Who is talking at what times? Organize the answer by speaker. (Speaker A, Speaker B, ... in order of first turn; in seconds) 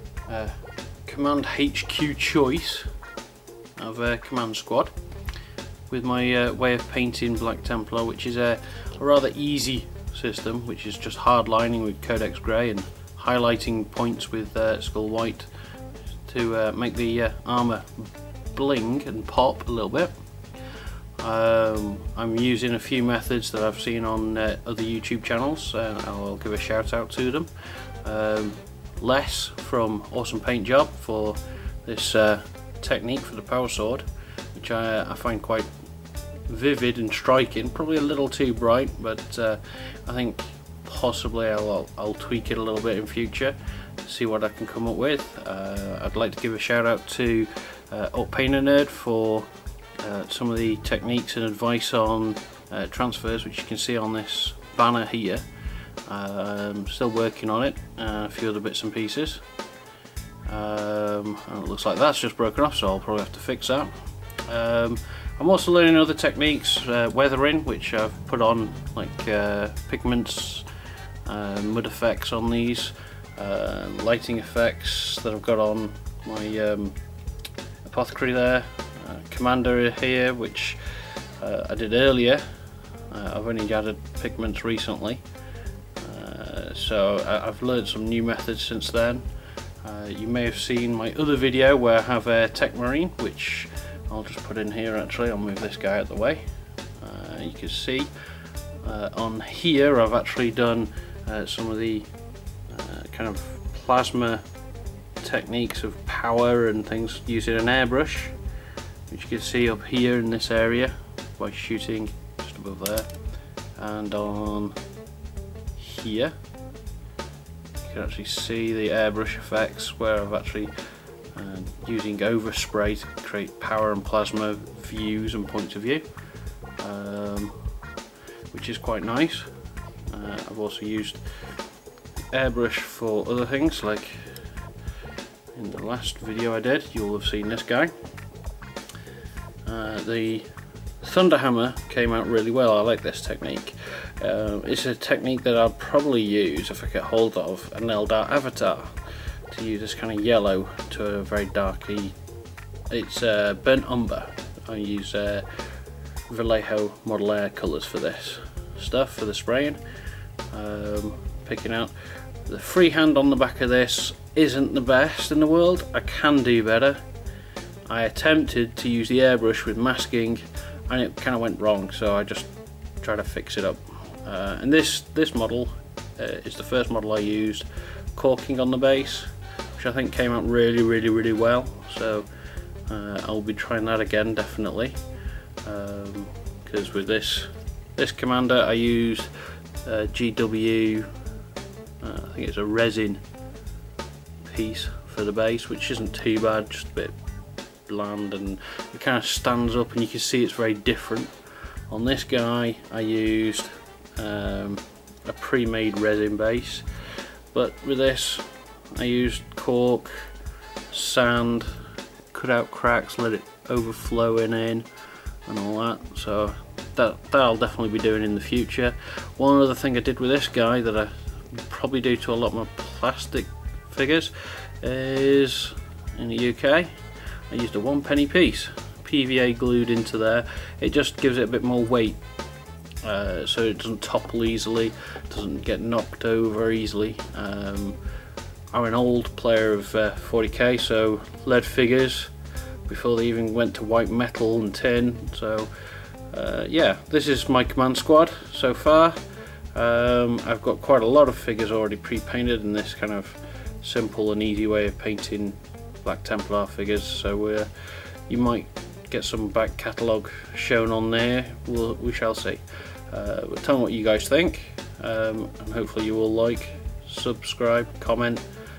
Speaker A: 0.3-2.9, 3.8-4.9, 5.9-15.5, 16.3-20.1, 21.2-27.5, 28.0-35.7, 36.5-55.4, 56.1-59.4, 60.5-63.9, 64.5-70.7, 71.3-77.0, 77.8-82.5, 83.1-85.2, 86.0-89.3, 89.8-96.5, 97.0-98.1, 98.8-102.1, 102.7-104.4, 105.2-108.3, 109.1-113.1, 113.8-114.8, 115.8-116.3, 117.8-120.7, 121.3-126.0, 126.8-127.6, 128.5-129.5, 130.1-131.2, 132.3-134.3, 135.5-137.9, 139.7-140.5, 141.0-148.9, 149.5-152.2, 152.9-155.5, 156.3-159.8, 160.5-161.9, 162.5-167.0, 167.9-172.5, 173.0-182.3, 182.9-185.0, 185.6-189.3, 189.8-191.1, 192.0-193.2, 194.4-197.2, 197.9-201.3, 201.9-206.9, 207.5-210.3, 210.9-211.7, 212.3-214.9, 215.5-226.9, 227.5-232.2, 233.0-238.0, 238.7-242.3, 242.9-245.7, 246.3-249.2, 249.7-257.7, 258.3-268.4